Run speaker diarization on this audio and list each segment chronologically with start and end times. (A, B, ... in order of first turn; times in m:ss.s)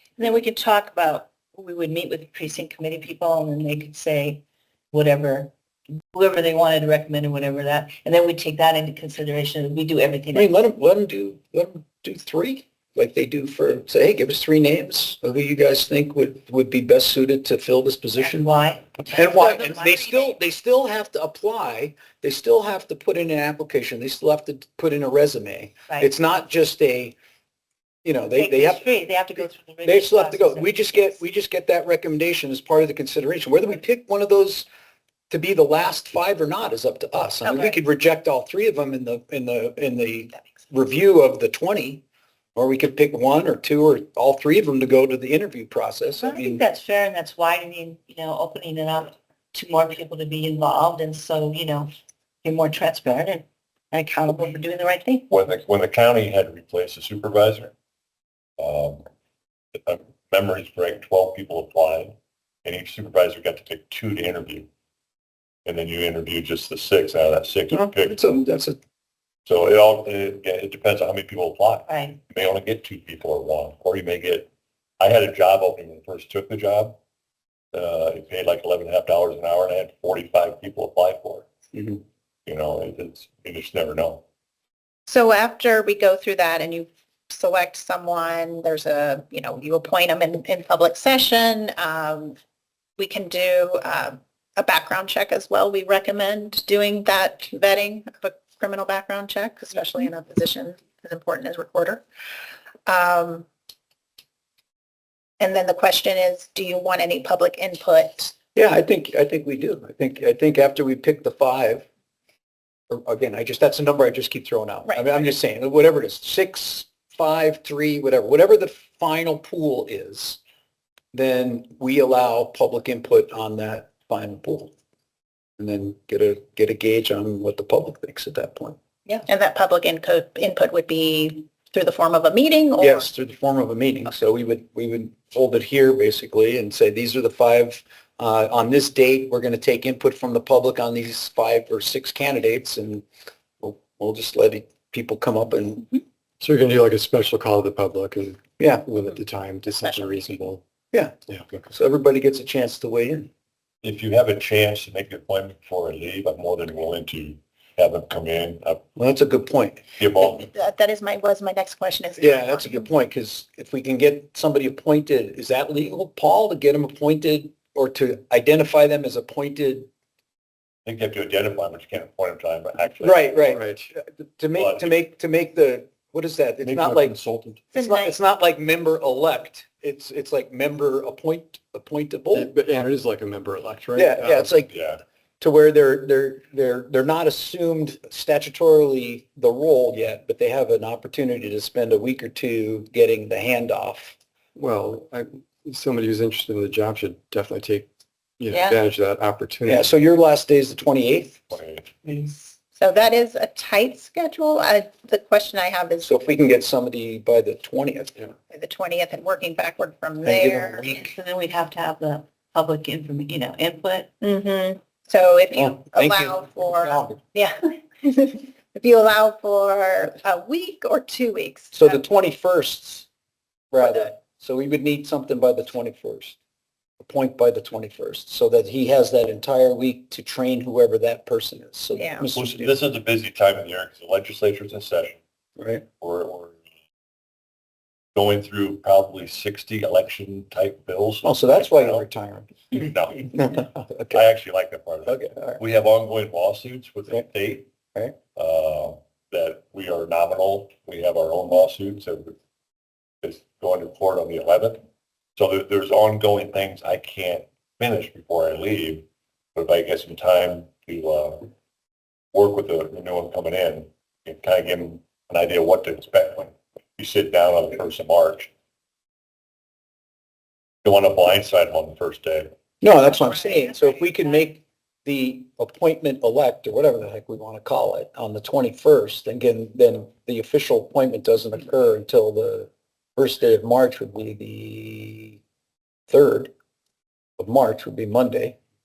0:00.2-0:05.5 A
0:06.1-0:10.5 A
0:10.3-0:18.4 B
0:18.2-0:20.4 A
0:19.1-0:27.1 B
0:28.0-0:28.8 B
0:28.3-0:31.2 A
0:29.8-0:34.6 B
0:35.3-0:42.0 B
0:42.6-0:46.6 B
0:46.2-0:51.9 A
0:52.4-0:55.3 A
0:55.3-0:57.7 C
0:58.6-0:59.1 C
0:59.8-1:04.7 C
1:05.6-1:08.3 C
1:07.7-1:08.8 B
1:09.5-1:14.5 C
1:11.9-1:12.2 A
1:15.0-1:17.0 C
1:17.7-1:21.5 C
1:21.7-1:22.0 B
1:22.4-1:24.2 C
1:25.1-1:32.4 D
1:33.0-1:42.0 D
1:42.9-1:43.4 D
1:45.4-1:48.3 D
1:48.5-1:51.8 B
1:52.9-2:00.4 B
2:01.1-2:04.7 B
2:05.6-2:08.8 B
2:09.1-2:13.1 D
2:12.8-2:23.0 B
2:23.6-2:26.0 B
2:26.4-2:30.6 E
2:28.6-2:28.9 B
2:29.8-2:30.4 D
2:31.3-2:31.6 E
2:31.7-2:33.3 B
2:33.8-2:38.8 C
2:39.0-2:39.8 B
2:40.0-2:40.4 C
2:40.2-2:42.8 D
2:42.2-2:49.9 B
2:50.8-2:53.4 C
2:53.0-2:57.2 B
2:53.5-2:53.9 E
2:54.5-2:54.9 C
2:56.6-2:57.6 C
2:57.7-3:02.6 B
3:02.3-3:04.5 E
3:03.9-3:04.7 B
3:04.7-3:05.0 C
3:05.4-3:14.2 B
3:14.6-3:19.9 E
3:18.5-3:18.8 A
3:19.6-3:21.5 B
3:21.5-3:21.9 C
3:22.0-3:22.5 A
3:22.8-3:26.1 D
3:26.0-3:28.2 B
3:28.5-3:30.9 D
3:30.2-3:31.1 B
3:30.8-3:34.1 A
3:34.2-3:42.0 D
3:35.5-3:37.2 B
3:41.7-3:43.1 B
3:43.7-3:46.4 B
3:43.8-3:44.1 D
3:47.0-3:52.7 B
3:51.9-3:52.2 D
3:52.3-3:55.2 C
3:55.6-3:55.8 B
3:56.0-3:56.6 C
3:58.1-4:02.0 C
4:01.2-4:02.7 B
4:02.7-4:07.7 C
4:03.3-4:04.2 B
4:05.0-4:05.6 B
4:08.3-4:12.3 C
4:13.2-4:14.8 C
4:15.4-4:21.5 C
4:22.3-4:28.5 C
4:30.8-4:32.5 C
4:32.8-4:45.4 B
4:46.1-4:46.5 B
4:47.4-4:48.6 B